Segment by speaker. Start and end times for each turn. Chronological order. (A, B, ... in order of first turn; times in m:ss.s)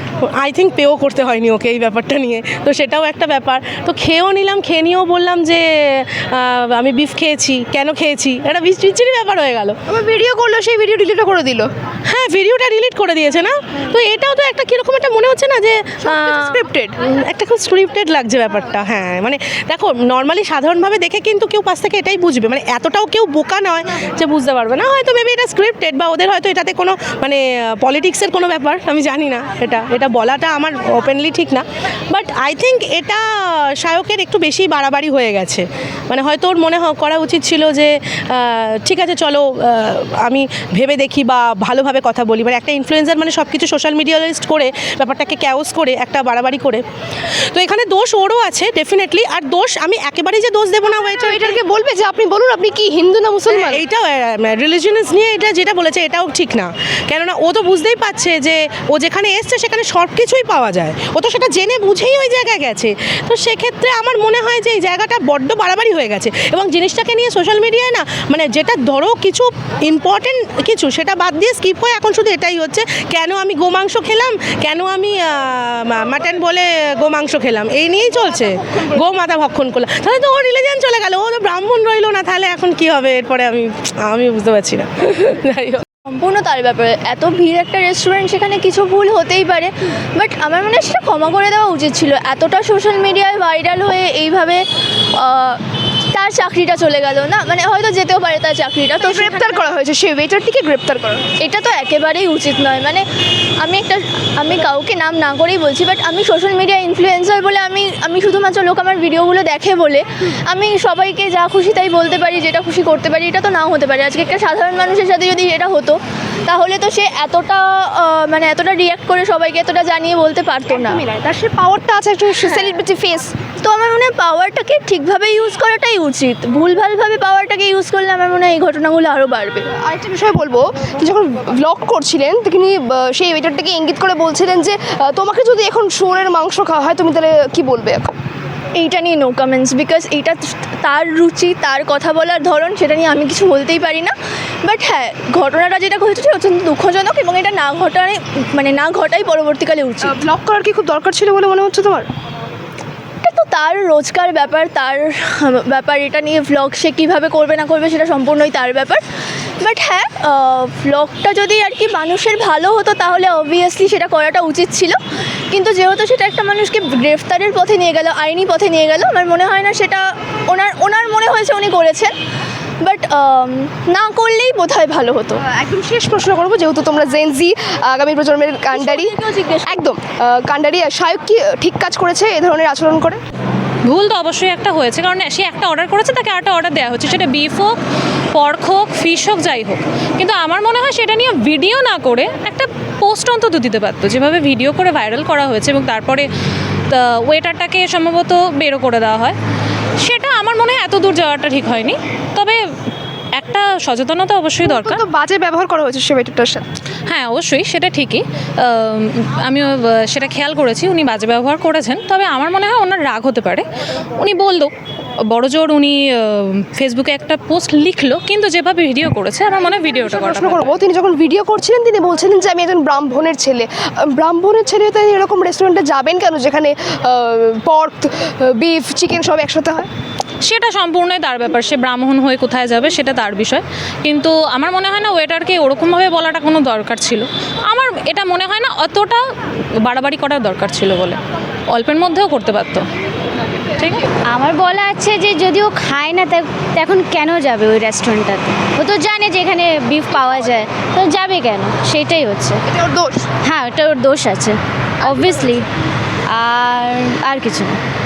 0:00.4-0:09.8 A
0:09.9-0:11.7 B
0:12.1-0:46.8 A
0:16.0-0:16.9 B
0:47.5-0:51.5 A
0:51.2-0:53.8 B
0:53.5-1:25.8 A
1:26.1-1:34.6 C
1:35.2-1:35.6 C
1:36.1-1:39.7 C
1:39.0-1:41.3 B
1:41.4-1:43.0 C
1:43.6-2:01.0 C
2:00.7-2:03.4 B
2:02.4-2:02.8 C
2:03.5-2:09.7 C
2:09.7-2:18.1 B
2:18.8-2:30.2 C
2:30.0-2:32.1 B
2:33.2-2:39.0 C
2:39.6-2:45.0 C
2:45.5-2:52.1 C
2:52.8-2:55.4 C
2:55.4-2:59.1 B
2:58.7-2:59.8 C
2:59.7-3:03.2 B
3:03.9-3:07.7 D
3:08.3-3:16.3 D
3:16.9-3:19.4 D
3:20.0-3:22.6 D
3:23.4-3:25.0 D
3:24.6-3:26.6 B
3:27.1-3:33.6 D
3:34.2-3:34.7 D
3:35.3-3:40.7 D
3:39.9-3:49.9 B
3:50.4-3:59.2 D
3:59.9-4:01.2 D
4:01.7-4:02.8 D
4:03.8-4:04.0 D
4:04.3-4:12.6 E
4:12.7-4:13.3 B
4:13.4-4:15.7 E
4:16.3-4:17.8 E